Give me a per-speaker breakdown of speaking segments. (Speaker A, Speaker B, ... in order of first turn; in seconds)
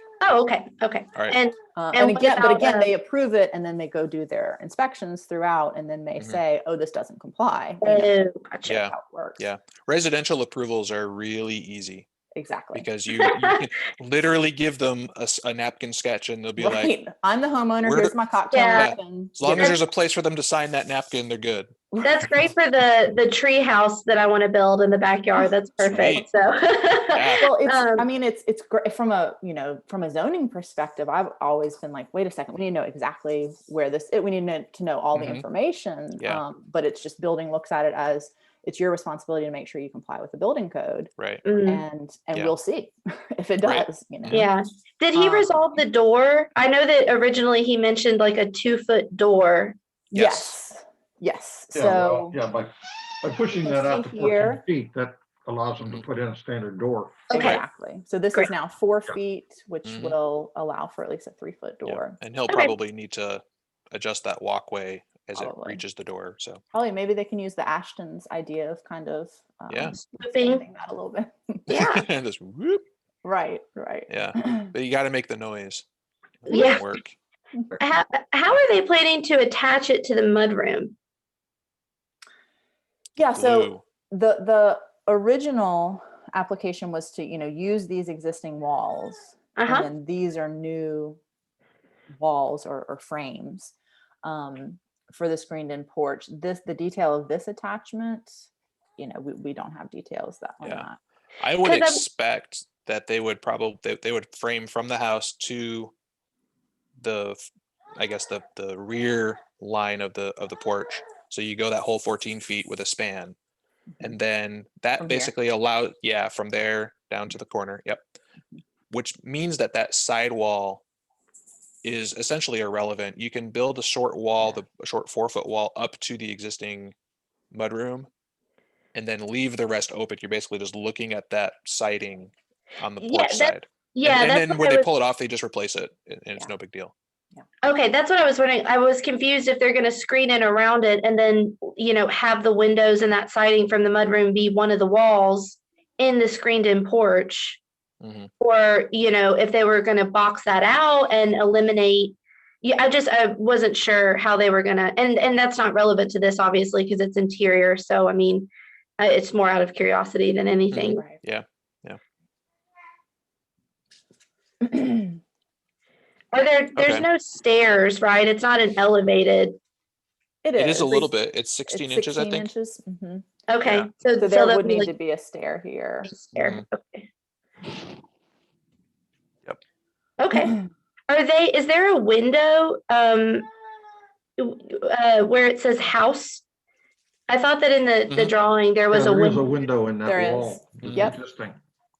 Speaker A: 0.2-2.9, 7.8-8.8, 18.5-18.9, 22.0-28.1, 41.5-41.9, 44.3-49.8, 57.3-57.6, 70.0-70.6, 71.7-72.0, 76.5-76.8, 77.8-81.0, 89.5-89.9, 101.6-102.0, 133.0-134.9, 137.6-147.6, 148.4-161.0, 166.3-169.6, 173.5-174.9, 176.1-177.1, 180.2-183.5, 184.4-186.4, 187.3-189.4
Speaker B: 1.8-9.4, 12.3-12.9, 16.6-19.8, 21.9-22.2, 27.4-41.1, 41.6-44.5, 45.1-45.6, 50.1-52.4, 53.5-54.6, 57.3-62.2, 65.3-65.8, 66.7-71.7, 73.2-74.7, 83.2-91.2, 92.1-98.4, 99.0-101.0, 115.0-115.3, 164.6-165.2, 170.4-171.1, 171.7-173.2, 174.2-176.1, 190.0-191.2
Speaker C: 8.7-12.1, 12.7-16.9, 17.8-18.2, 18.7-21.7, 25.8-26.3, 27.1-27.5, 35.1-35.5, 36.2-36.4, 41.2-41.4, 43.6-44.5, 50.1-50.6, 59.9-60.2, 61.9-66.6, 69.7-70.0, 71.7-72.8, 74.1-75.8, 76.4-77.2, 83.3-83.8, 101.4-105.9, 107.0-107.4, 108.0-113.3, 114.0-118.0, 118.9-120.8, 121.8-126.9, 127.5-128.1, 128.9-136.9, 148.0-148.3, 160.7-162.0, 166.8-167.1, 170.6-172.5, 173.6-173.9, 176.3-176.6, 190.8-191.1
Speaker D: 51.7-57.3, 188.9-191.6